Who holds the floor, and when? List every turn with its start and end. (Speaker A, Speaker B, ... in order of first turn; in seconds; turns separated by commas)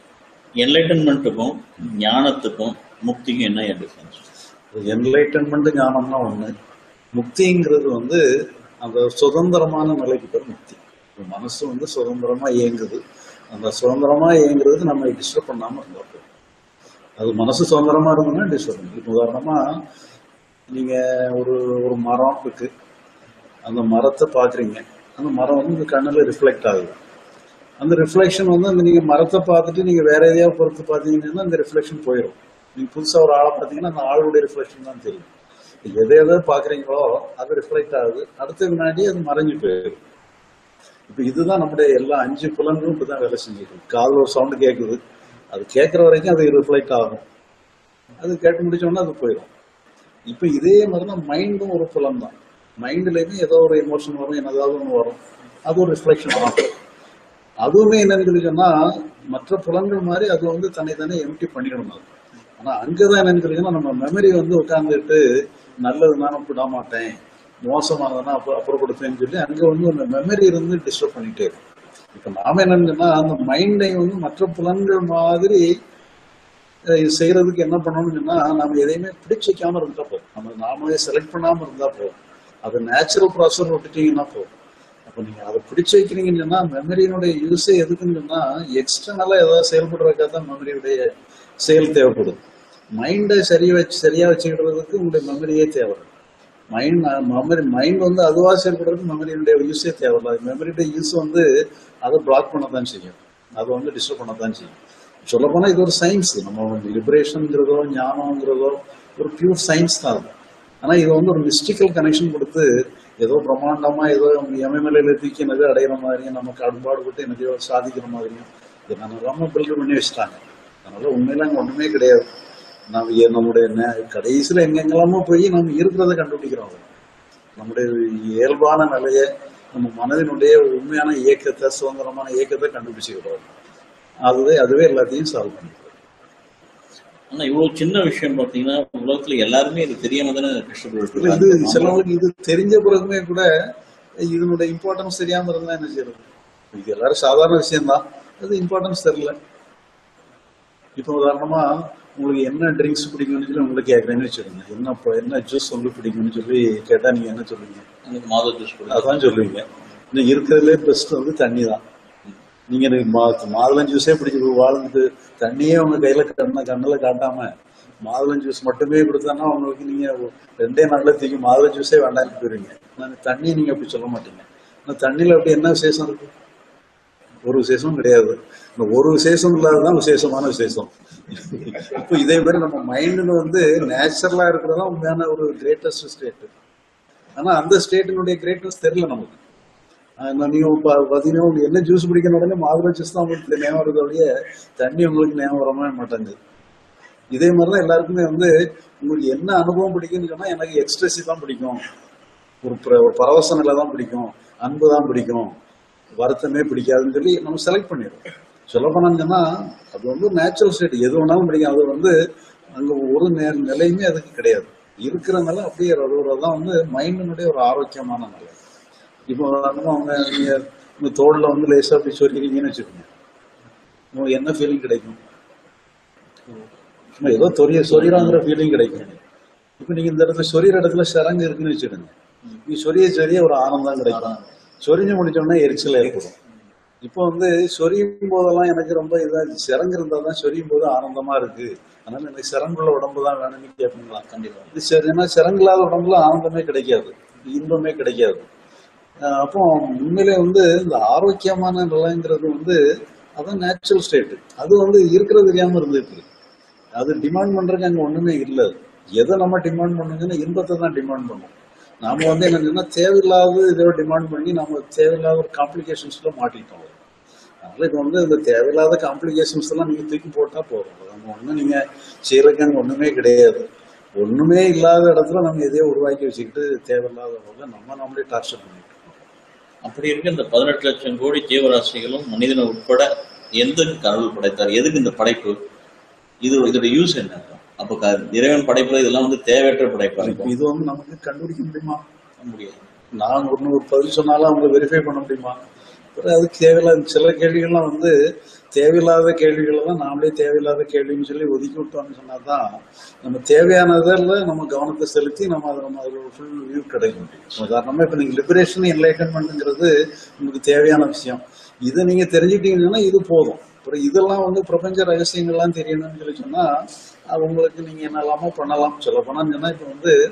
Speaker A: 0.6-4.2, Speaker B: 4.7-6.5, Speaker B: 7.1-8.2, Speaker B: 8.8-16.3, Speaker B: 17.2-19.6, Speaker B: 20.7-22.7, Speaker B: 23.6-26.9, Speaker B: 27.8-35.3, Speaker B: 35.9-40.0, Speaker B: 41.1-45.0, Speaker B: 45.5-47.2, Speaker B: 48.2-49.5, Speaker B: 50.3-56.8, Speaker B: 57.6-65.2, Speaker B: 65.8-71.6, Speaker B: 72.1-75.7, Speaker B: 76.9-84.5, Speaker B: 85.1-91.1, Speaker B: 91.6-92.4, Speaker B: 93.0-96.1, Speaker B: 96.7-101.5, Speaker B: 102.0-112.7, Speaker B: 113.2-122.2, Speaker B: 122.9-126.9, Speaker B: 127.6-133.5, Speaker B: 134.3-135.9, Speaker A: 137.3-142.0, Speaker B: 141.2-143.5, Speaker B: 144.3-149.3, Speaker B: 151.0-157.9, Speaker A: 158.1-159.3, Speaker B: 158.9-161.8, Speaker B: 162.7-167.5, Speaker B: 168.0-176.3, Speaker B: 177.4-186.5, Speaker B: 187.4-189.4, Speaker B: 190.2-194.3, Speaker B: 194.8-196.3, Speaker B: 197.3-201.8, Speaker B: 202.6-205.5, Speaker B: 206.2-212.1, Speaker B: 212.8-218.6, Speaker B: 219.3-223.1, Speaker B: 224.1-225.2, Speaker A: 226.5-228.5, Speaker B: 227.2-229.2, Speaker B: 229.8-236.3, Speaker A: 234.1-234.5, Speaker B: 237.0-248.5, Speaker A: 244.3-244.8, Speaker B: 249.2-252.8, Speaker B: 253.4-256.3, Speaker B: 257.0-267.0, Speaker B: 267.6-273.7, Speaker B: 274.2-279.3, Speaker A: 279.9-283.1, Speaker A: 283.6-285.6, Speaker A: 286.4-290.5, Speaker B: 290.2-292.0, Speaker A: 292.4-292.9, Speaker B: 293.2-295.6, Speaker B: 296.1-298.1, Speaker B: 298.8-302.7, Speaker B: 303.2-316.7, Speaker B: 317.3-320.1